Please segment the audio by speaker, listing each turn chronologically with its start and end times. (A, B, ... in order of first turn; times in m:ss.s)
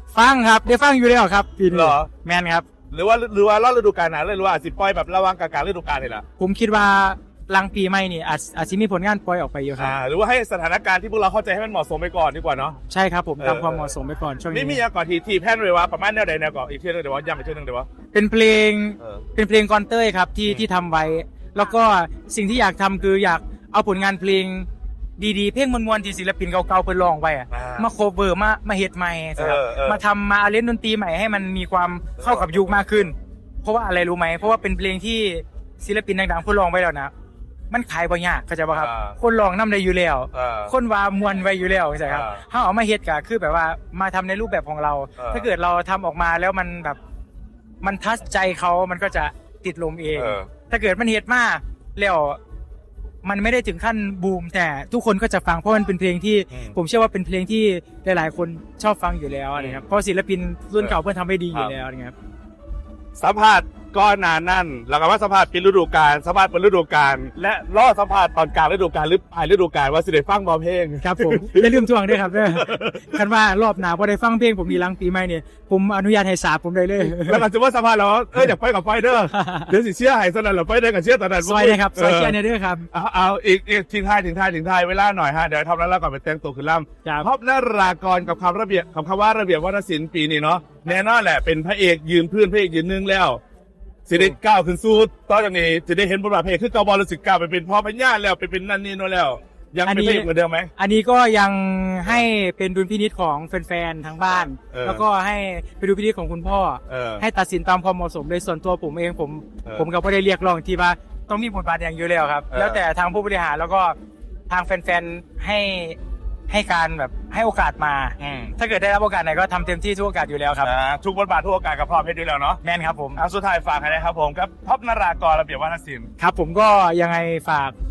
0:00.1-0:02.7 A
0:01.7-0:02.1 B
0:02.9-0:06.2 B
0:06.4-0:09.9 A
0:09.8-0:12.8 B
0:12.9-0:14.8 A
0:13.4-0:13.9 B
0:14.5-0:17.9 B
0:18.1-0:24.7 A
0:25.2-0:37.1 A
0:27.5-0:27.9 B
0:29.4-0:30.0 B
0:32.2-0:32.8 B
0:37.7-0:47.0 A
0:38.8-0:39.2 B
0:40.3-0:40.7 B
0:42.1-0:42.4 B
0:45.2-0:45.5 B
0:47.8-0:52.4 A
0:50.2-0:50.5 B
0:53.2-1:02.1 A
1:03.2-1:13.2 B
1:11.0-1:17.5 A
1:17.1-1:22.4 B
1:19.3-1:19.7 A
1:21.4-1:22.9 A
1:22.9-1:33.4 B
1:34.1-1:40.7 B
1:39.8-1:53.9 A
1:44.3-1:45.0 B
1:46.9-1:47.2 B
1:52.5-1:52.8 B
1:54.5-1:56.0 A
1:56.5-2:00.7 A
1:58.2-1:58.5 B
2:00.6-2:02.6 B
2:02.6-2:03.2 A
2:03.2-2:06.1 B
2:06.2-2:07.7 A